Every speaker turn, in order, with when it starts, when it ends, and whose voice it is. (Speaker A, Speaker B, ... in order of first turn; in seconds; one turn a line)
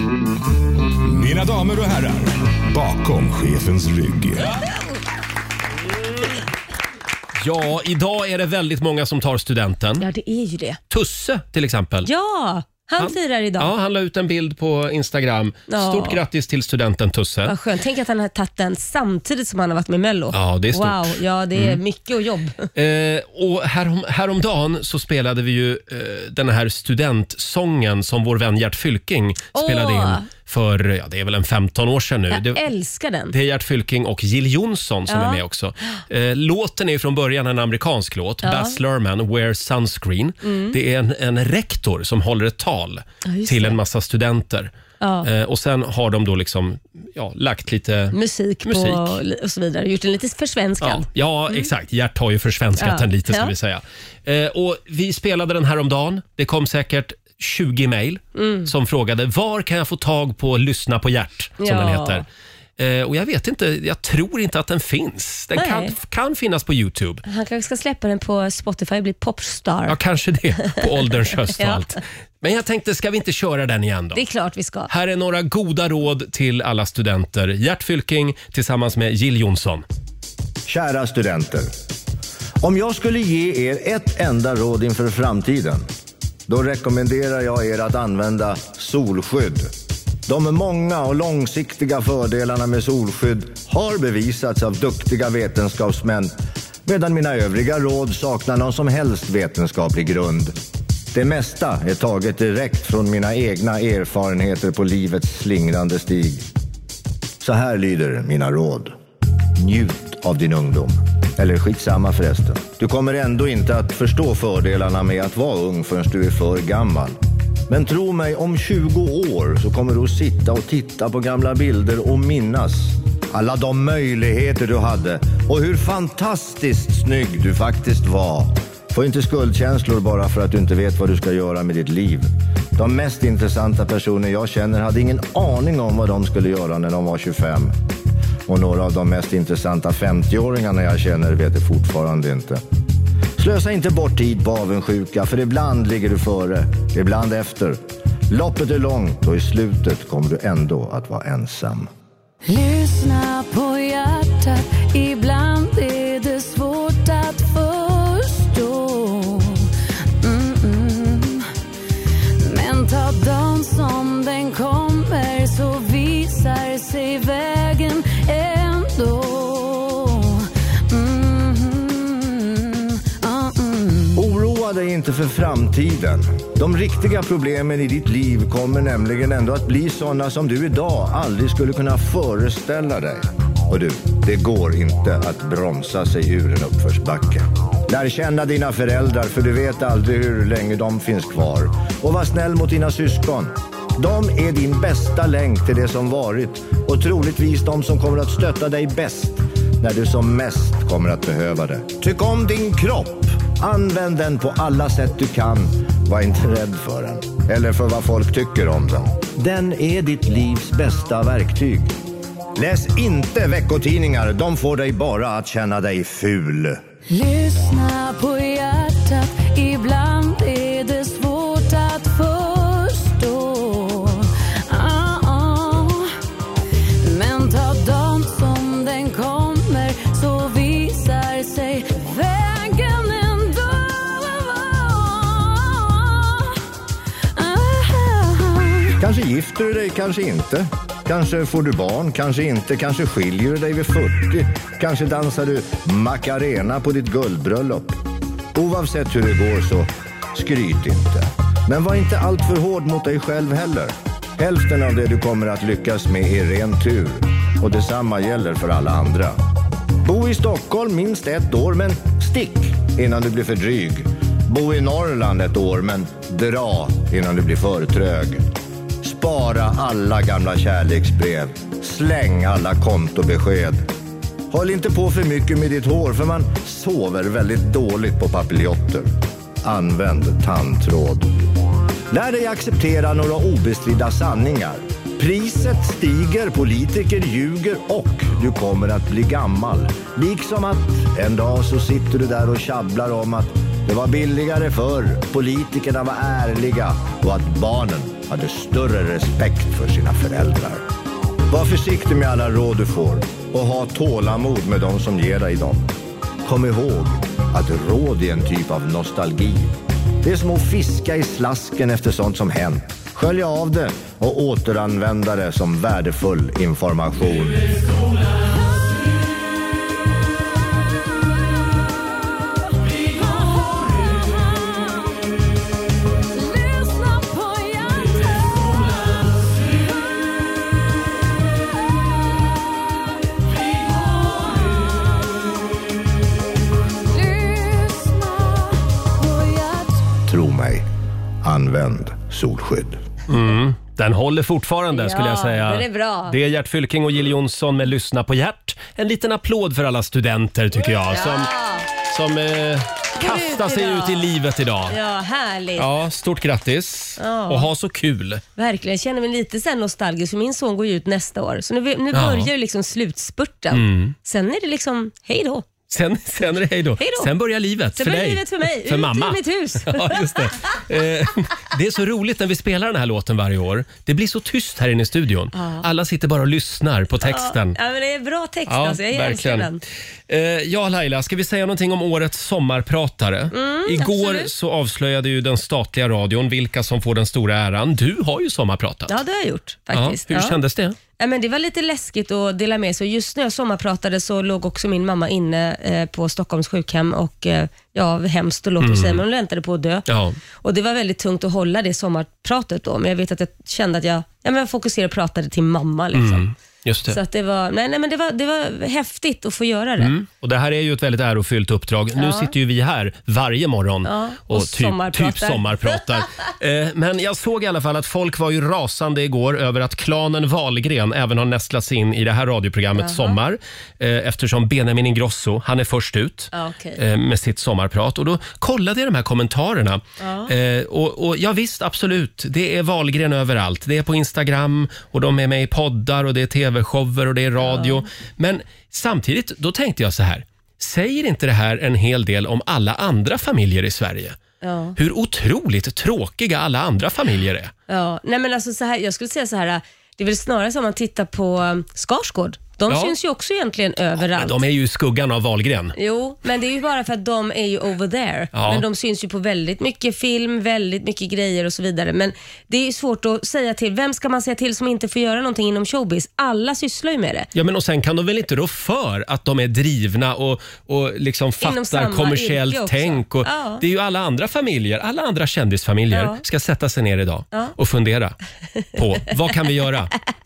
Speaker A: 1.0-4.5
Speaker B: 7.4-10.0
Speaker C: 10.0-10.8
Speaker B: 10.9-12.1
Speaker C: 12.0-13.7
Speaker B: 13.0-17.5
Speaker C: 15.7-16.2
Speaker C: 17.4-22.6
Speaker B: 20.3-21.8
Speaker B: 22.7-32.6
Speaker C: 29.5-30.2
Speaker C: 32.3-33.3
Speaker B: 33.3-44.7
Speaker C: 35.1-35.4
Speaker C: 38.4-38.8
Speaker C: 40.4-40.8
Speaker C: 43.2-43.8
Speaker C: 45.0-45.3
Speaker B: 45.2-49.2
Speaker C: 48.1-51.6
Speaker B: 50.8-62.2
Speaker C: 52.8-53.5
Speaker C: 58.3-58.7
Speaker C: 61.6-62.2
Speaker B: 62.8-67.2
Speaker C: 65.5-65.9
Speaker C: 67.2-70.0
Speaker B: 69.9-74.2
Speaker C: 71.5-71.8
Speaker C: 74.1-74.9
Speaker B: 74.9-79.8
Speaker D: 80.7-81.7
Speaker D: 82.6-85.8
Speaker D: 86.5-89.7
Speaker D: 90.3-96.3
Speaker D: 96.8-100.5
Speaker D: 101.1-106.4
Speaker D: 107.4-108.9
Speaker D: 109.5-117.2
Speaker D: 117.7-137.7
Speaker D: 138.5-142.6
Speaker D: 143.4-151.9
Speaker E: 152.5-159.7
Speaker E: 160.2-161.5
Speaker E: 162.4-174.2
Speaker D: 174.1-211.9
Speaker D: 212.6-216.8
Speaker E: 217.1-226.1
Speaker E: 227.0-236.6
Speaker E: 237.3-239.0
Speaker D: 239.0-248.0
Speaker D: 248.5-259.4
Speaker D: 260.0-268.4
Speaker D: 269.0-273.9
Speaker D: 274.5-279.1
Speaker D: 279.6-281.3
Speaker D: 282.1-300.8
Speaker D: 301.5-305.9
Speaker D: 306.4-317.7
Speaker E: 322.9-325.2
Speaker E: 326.3-330.3
Speaker E: 331.7-333.1
Speaker E: 333.6-335.5
Speaker E: 337.1-340.1
Speaker D: 340.3-340.9
Speaker D: 341.4-343.0
Speaker B: 343.3-351.5
Speaker C: 344.9-346.3
Speaker C: 351.1-351.9
Speaker B: 352.0-354.9
Speaker C: 353.2-354.2
Speaker C: 354.9-355.9
Speaker B: 355.8-358.4
Speaker C: 357.2-357.7
Speaker C: 358.6-365.6
Speaker B: 362.1-362.5
Speaker B: 363.7-364.1
Speaker B: 365.9-377.8
Speaker C: 367.0-367.3
Speaker C: 368.0-370.2
Speaker C: 375.5-375.9
Speaker C: 377.2-379.8
Speaker B: 378.7-379.7
Speaker B: 380.3-389.1
Speaker C: 383.5-384.5
Speaker C: 389.1-390.6
Speaker B: 389.9-390.9
Speaker C: 391.2-400.1
Speaker B: 398.8-399.2
Speaker B: 400.1-400.4
Speaker C: 400.6-406.4
Speaker B: 406.1-407.2
Speaker C: 407.1-410.1
Speaker B: 410.0-444.4
Speaker C: 412.2-412.5
Speaker C: 414.0-415.9
Speaker C: 423.0-423.4
Speaker C: 426.5-427.0
Speaker C: 430.2-430.5
Speaker C: 437.6-438.0
Speaker C: 444.6-444.9
Speaker B: 445.0-447.7
Speaker C: 447.9-454.6
Speaker B: 452.9-453.1
Speaker B: 454.2-455.9
Speaker C: 455.9-467.5
Speaker B: 458.5-458.8
Speaker B: 467.5-478.4
Speaker C: 471.6-473.8
Speaker C: 476.1-476.4
Speaker B: 478.9-480.1